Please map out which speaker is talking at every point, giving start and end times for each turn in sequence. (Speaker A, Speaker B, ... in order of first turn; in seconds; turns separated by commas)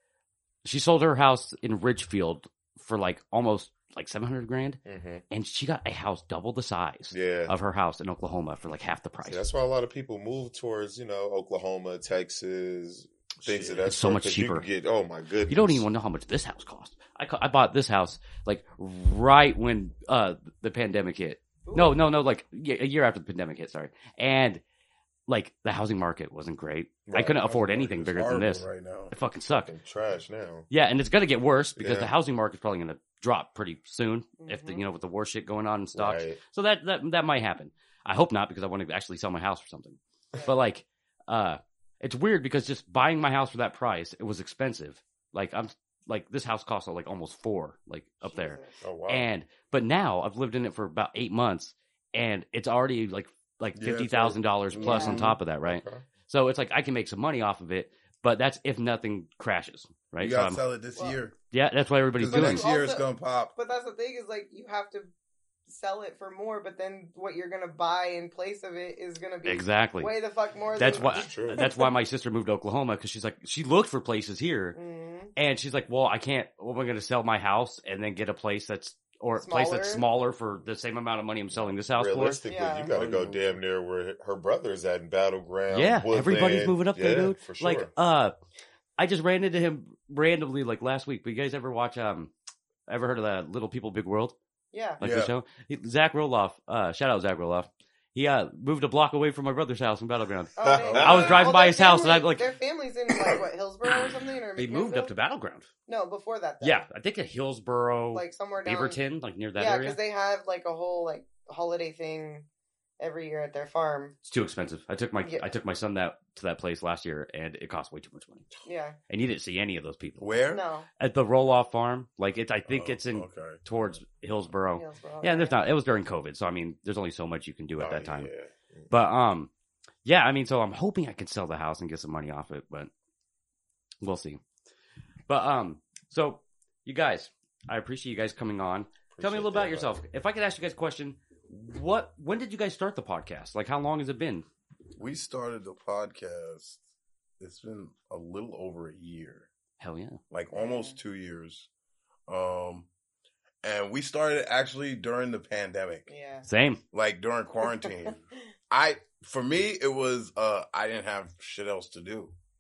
Speaker A: 0.6-4.8, Speaker B: 4.8-5.2, Speaker A: 5.3-9.4, Speaker B: 7.1-7.5, Speaker B: 9.2-15.8, Speaker C: 13.4-13.8, Speaker A: 13.8-14.7, Speaker A: 15.5-24.6, Speaker D: 21.6-22.0, Speaker A: 25.3-29.7, Speaker B: 27.1-27.5, Speaker C: 27.4-29.1, Speaker B: 29.6-30.7, Speaker A: 30.7-60.6, Speaker B: 31.8-32.1, Speaker D: 34.4-34.9, Speaker B: 35.9-36.4, Speaker D: 48.3-48.8, Speaker B: 48.8-49.3, Speaker C: 53.8-55.4, Speaker D: 54.8-55.2, Speaker B: 54.9-56.0, Speaker C: 60.2-61.3, Speaker A: 61.5-62.6, Speaker C: 62.2-63.5, Speaker D: 62.2-65.1, Speaker D: 65.7-71.9, Speaker A: 69.4-70.1, Speaker B: 70.7-71.6, Speaker A: 70.8-74.8, Speaker D: 74.7-75.3, Speaker A: 75.3-82.4, Speaker D: 79.4-80.0, Speaker B: 81.5-87.9, Speaker D: 82.5-82.9, Speaker C: 82.9-83.6, Speaker A: 85.7-88.3, Speaker A: 89.0-92.3, Speaker A: 92.9-94.3, Speaker D: 94.7-95.0, Speaker A: 95.0-102.5, Speaker C: 95.0-95.3, Speaker D: 100.6-105.1, Speaker B: 100.6-101.4, Speaker C: 100.8-101.5, Speaker A: 104.5-105.7, Speaker D: 105.8-106.8, Speaker A: 106.6-110.0, Speaker D: 108.1-109.0, Speaker D: 109.6-112.4, Speaker D: 113.0-114.1, Speaker A: 114.2-118.5, Speaker D: 115.2-115.5, Speaker D: 118.6-119.0, Speaker A: 119.1-120.2, Speaker C: 120.2-120.6, Speaker D: 120.5-120.9, Speaker A: 121.0-128.3, Speaker C: 122.7-123.8, Speaker D: 124.7-125.6, Speaker B: 127.8-128.9, Speaker A: 128.9-129.5, Speaker A: 130.0-132.9, Speaker A: 134.0-134.4, Speaker A: 135.3-144.4, Speaker B: 139.1-140.0, Speaker C: 145.0-146.8, Speaker C: 147.4-149.5, Speaker A: 149.8-150.2, Speaker C: 150.3-151.7, Speaker D: 150.5-151.0, Speaker C: 152.3-152.9, Speaker C: 153.6-156.1, Speaker D: 156.1-156.5, Speaker A: 156.4-156.8, Speaker C: 156.9-162.3, Speaker D: 157.7-158.1